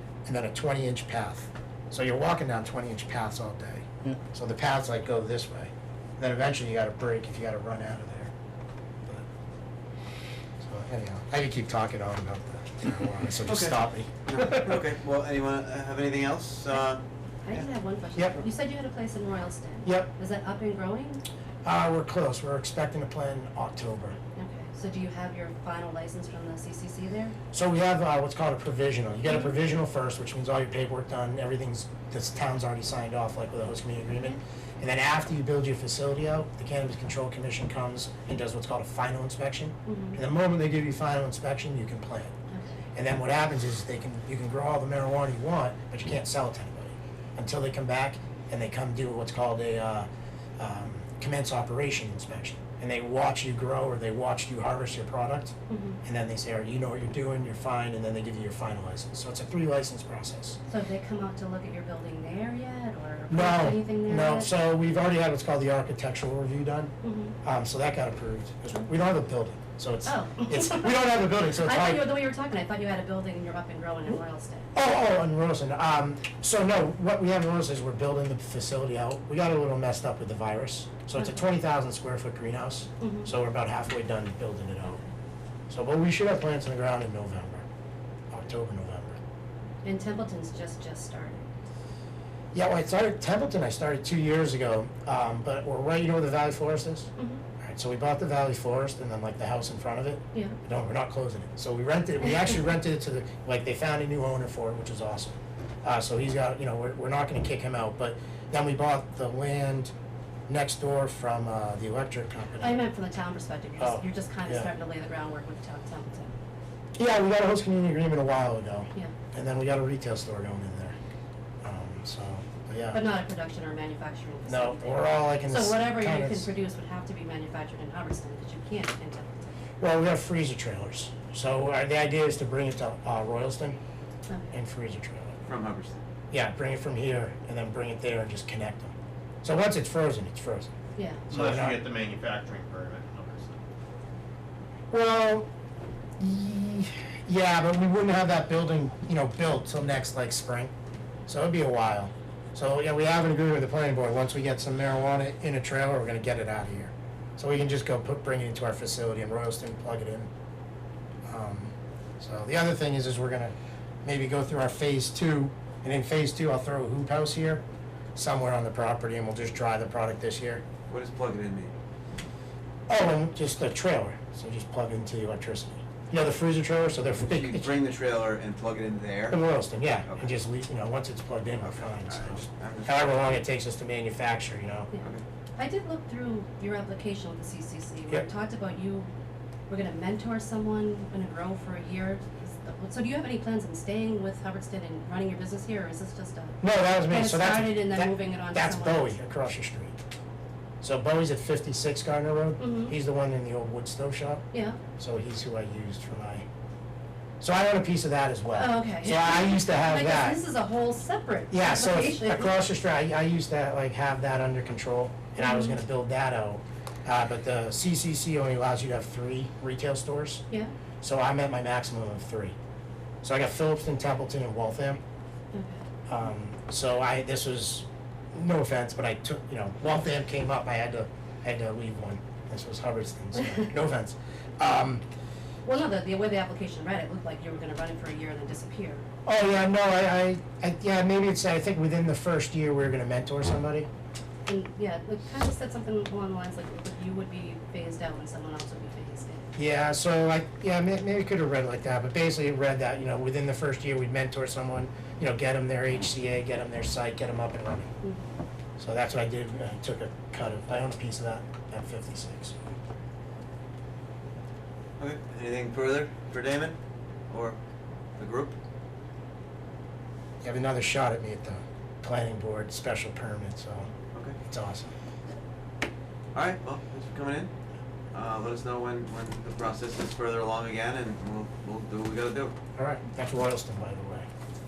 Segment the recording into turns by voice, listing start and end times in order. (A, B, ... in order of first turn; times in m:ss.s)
0:00.2-0:08.3 A
0:10.6-0:14.8 A
0:13.4-0:13.8 B
0:14.3-0:17.6 B
0:17.4-0:21.2 C
0:18.2-0:18.4 A
0:19.8-0:20.1 A
0:21.6-0:24.2 A
0:24.4-0:27.3 C
0:27.5-0:42.3 A
0:39.8-0:40.2 C
0:42.5-0:42.8 C
0:42.9-0:50.1 A
0:50.6-1:00.6 A
0:55.7-0:56.0 C
1:00.7-1:04.5 C
1:03.3-1:06.9 A
1:07.0-1:07.4 C
1:07.4-1:12.0 A
1:10.0-1:14.7 C
1:14.7-1:25.0 A
1:23.0-1:23.3 C
1:25.7-1:27.6 A
1:28.3-1:29.2 A
1:29.8-1:31.4 C
1:32.5-1:49.9 A
1:37.2-1:37.4 C
1:50.5-1:52.8 A
1:52.6-1:56.4 C
1:53.8-1:54.7 A
1:57.0-2:01.0 A
2:01.6-2:03.0 A
2:02.9-2:09.5 C
2:04.5-2:06.5 A
2:09.8-2:13.8 A
2:14.3-2:14.5 C
2:14.5-2:15.4 A
2:15.4-2:16.0 B
2:16.3-2:20.7 A
2:21.0-2:21.2 C
2:21.3-2:21.8 A
2:21.3-2:23.6 D
2:24.9-2:25.5 A
2:26.2-2:30.7 A
2:31.3-2:40.3 A
2:41.3-2:43.5 A
2:44.0-2:47.6 A
2:48.2-2:50.6 A
2:50.9-2:51.7 B
2:52.9-2:57.7 A
2:57.2-2:59.4 B
2:59.3-3:04.9 A
3:02.0-3:03.4 B
3:04.9-3:09.1 C
3:09.7-3:19.2 C
3:16.6-3:20.0 A
3:20.8-3:24.4 A
3:22.6-3:22.9 C
3:24.5-3:24.8 C
3:25.0-3:26.4 A
3:27.4-3:30.4 A
3:28.5-3:32.6 C
3:31.5-3:40.4 A
3:35.4-3:35.8 C
3:41.0-3:42.5 A
3:43.2-3:45.0 A
3:45.5-3:45.8 C
3:46.1-3:55.0 A
3:55.6-3:59.0 C
3:59.2-4:03.9 A
4:04.4-4:09.5 C
4:09.6-4:17.9 A
4:18.8-4:22.5 A
4:25.0-4:26.8 B
4:27.3-4:27.6 B
4:28.2-4:28.6 B
4:30.4-4:33.9 A
4:34.4-4:34.9 A
4:36.3-4:37.5 B
4:38.1-4:42.5 B
4:42.8-4:44.3 A